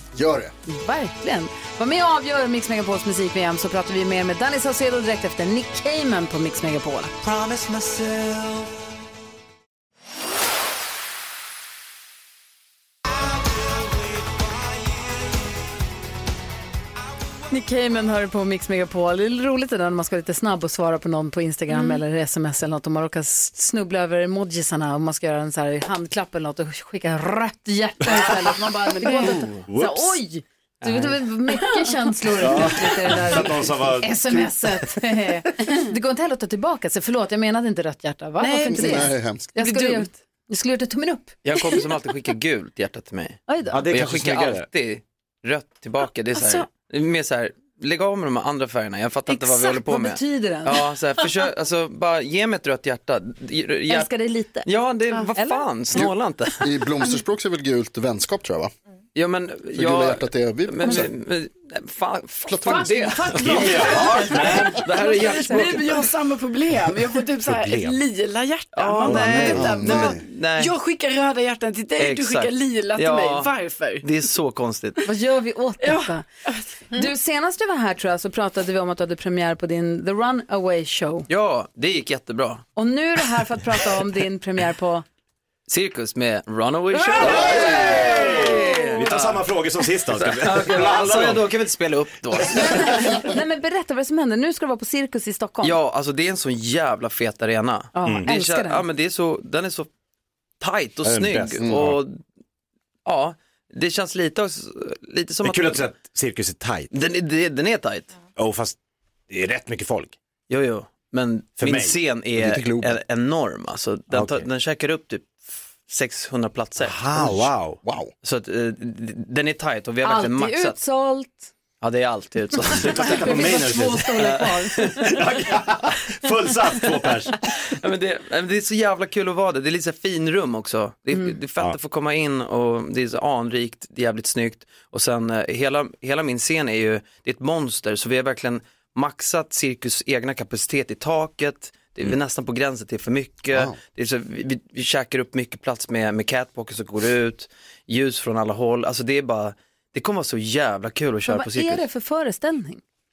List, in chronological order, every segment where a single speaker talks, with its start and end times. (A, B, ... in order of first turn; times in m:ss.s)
0:00.1-0:00.5 A
0:00.7-0:07.1 B
0:17.5-0:41.8 B
0:21.7-0:22.0 C
0:28.9-0:29.4 C
0:29.7-0:30.2 D
0:30.8-0:31.2 E
0:32.4-0:34.5 D
0:38.4-0:40.1 C
0:38.7-0:39.5 A
0:41.4-0:54.1 E
0:43.5-0:43.8 B
0:43.7-0:44.7 D
0:46.4-0:46.6 C
0:49.3-0:50.8 B
0:53.9-0:54.7 B
0:54.6-0:56.7 E
0:55.3-0:55.7 B
0:55.9-0:58.7 A
0:59.1-1:06.0 E
0:59.7-1:01.1 A
1:02.5-1:03.0 A
1:02.6-1:06.0 B
1:03.4-1:04.8 D
1:03.7-1:04.2 C
1:05.0-1:14.0 C
1:07.4-1:08.0 D
1:08.7-1:10.7 E
1:09.0-1:09.8 D
1:09.5-1:10.2 A
1:12.0-1:13.5 E
1:14.0-1:15.0 E
1:15.0-1:16.2 B
1:15.8-1:16.6 C
1:16.9-1:21.3 B
1:21.3-1:22.6 E
1:22.8-1:25.0 B
1:25.7-1:29.5 E
1:27.0-1:28.8 B
1:27.1-1:31.5 D
1:30.1-1:33.1 E
1:32.5-1:35.8 B
1:35.6-1:39.9 E
1:37.9-1:38.8 B
1:38.0-1:38.3 D
1:40.6-1:42.2 E
1:41.0-1:42.0 D
1:41.6-1:41.9 A
1:43.0-1:45.9 E
1:45.4-1:46.9 D
1:46.9-1:48.1 E
1:48.4-1:48.8 D
1:49.3-1:50.2 D
1:50.5-1:57.0 E
1:51.6-1:52.0 D
1:52.4-1:52.9 A
1:54.1-1:54.4 D
1:56.8-1:57.8 D
1:57.1-1:58.1 A
1:58.2-2:00.8 E
2:00.0-2:01.5 B
2:01.8-2:03.6 E
2:02.7-2:04.3 D
2:02.9-2:05.2 B
2:04.1-2:05.2 E
2:05.0-2:07.4 D
2:07.6-2:31.8 E
2:31.2-2:32.8 B